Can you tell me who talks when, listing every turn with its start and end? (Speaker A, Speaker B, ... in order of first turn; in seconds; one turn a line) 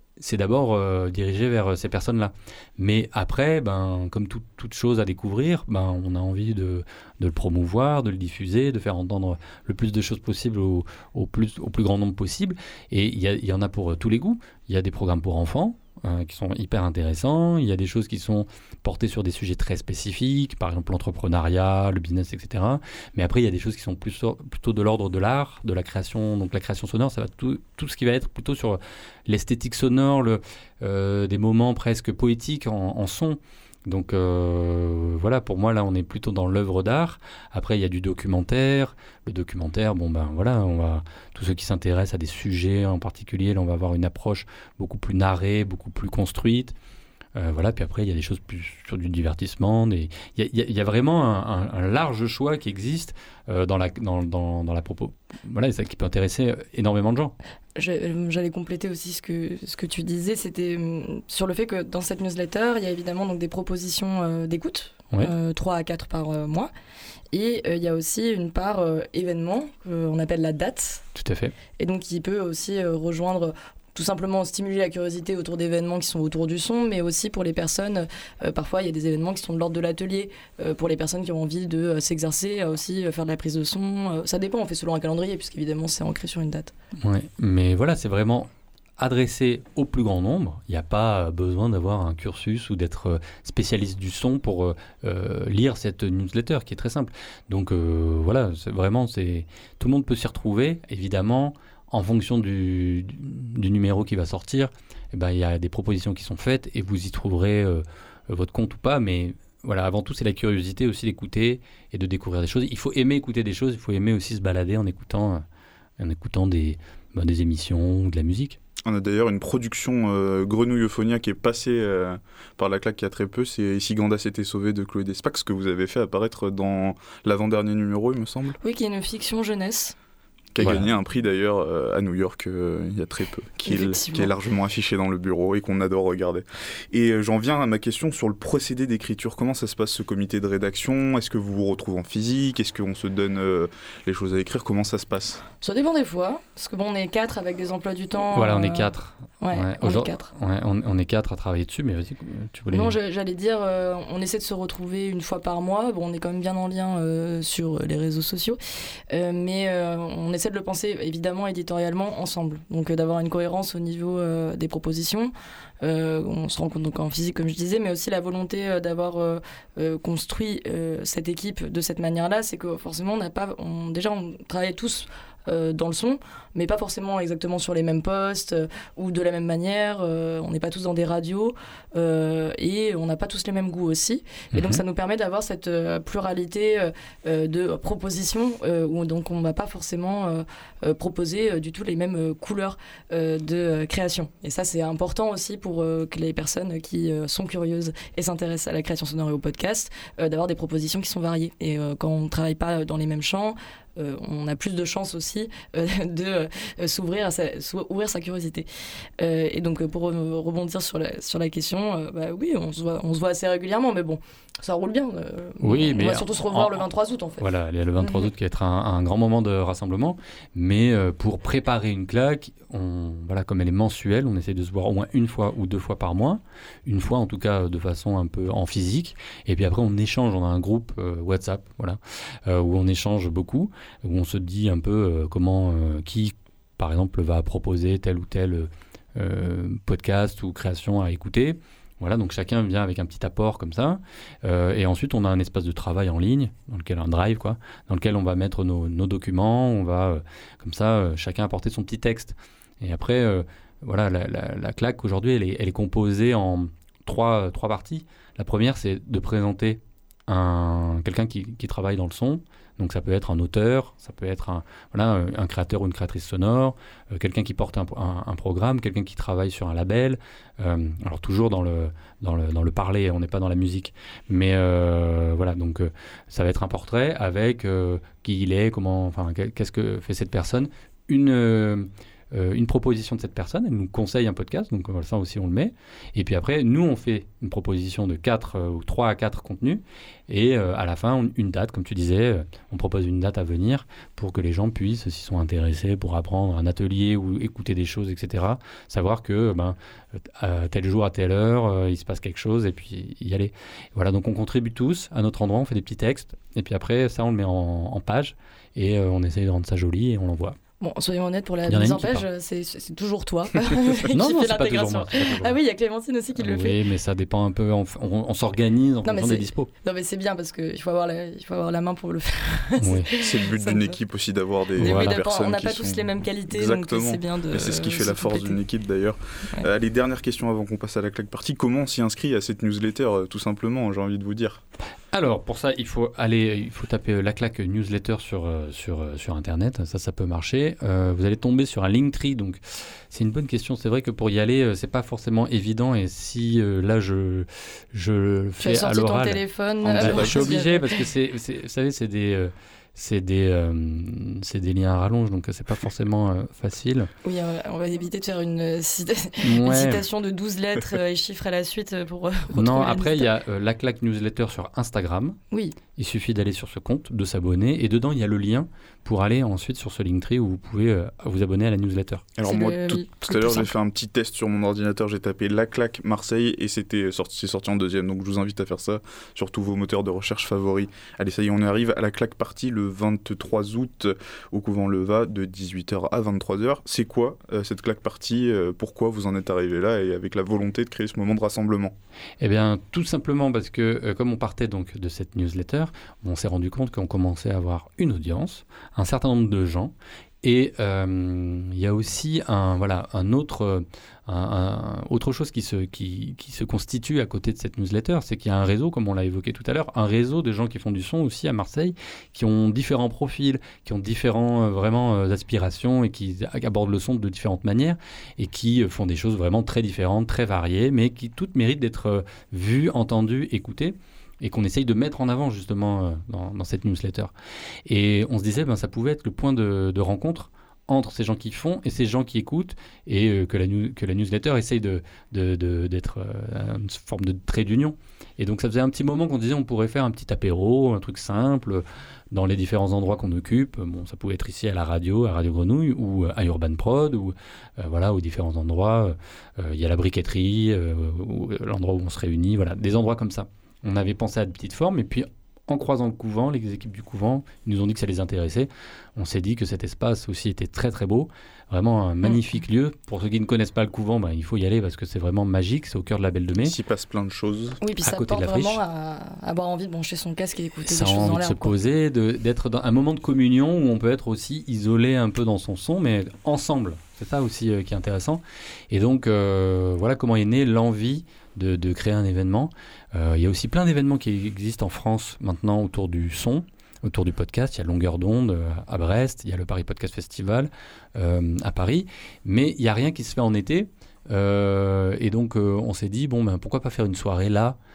Speaker A: 0.2-46.7
Speaker A: 47.4-57.3
Speaker B: 57.8-66.7
Speaker B: 67.3-71.0
Speaker A: 71.2-71.5
Speaker B: 71.8-86.7
Speaker A: 87.0-115.4
Speaker A: 116.0-118.6
Speaker C: 118.8-128.6
Speaker B: 128.6-129.9
Speaker C: 130.5-145.4
Speaker A: 130.6-130.9
Speaker B: 133.7-134.3
Speaker B: 145.6-150.3
Speaker A: 148.3-152.9
Speaker B: 152.7-158.6
Speaker B: 159.1-208.7
Speaker A: 184.5-184.8
Speaker B: 209.2-217.4
Speaker A: 215.6-216.9
Speaker A: 217.4-299.8
Speaker A: 300.4-310.6
Speaker B: 310.8-316.8
Speaker A: 311.7-312.2
Speaker A: 314.1-315.6
Speaker A: 316.4-319.7
Speaker B: 319.0-323.9
Speaker A: 322.8-323.1
Speaker C: 323.2-334.6
Speaker B: 324.8-328.6
Speaker A: 324.8-325.2
Speaker A: 335.1-357.1
Speaker B: 348.6-350.9
Speaker C: 350.0-350.5
Speaker B: 357.2-363.3
Speaker A: 359.4-360.1
Speaker A: 362.5-365.4
Speaker B: 365.5-365.8
Speaker A: 365.9-372.3
Speaker C: 372.4-391.9
Speaker B: 372.4-373.7
Speaker A: 392.4-427.3
Speaker A: 427.9-466.8
Speaker C: 466.6-467.8
Speaker B: 467.8-471.7
Speaker A: 467.9-468.8
Speaker A: 470.9-497.8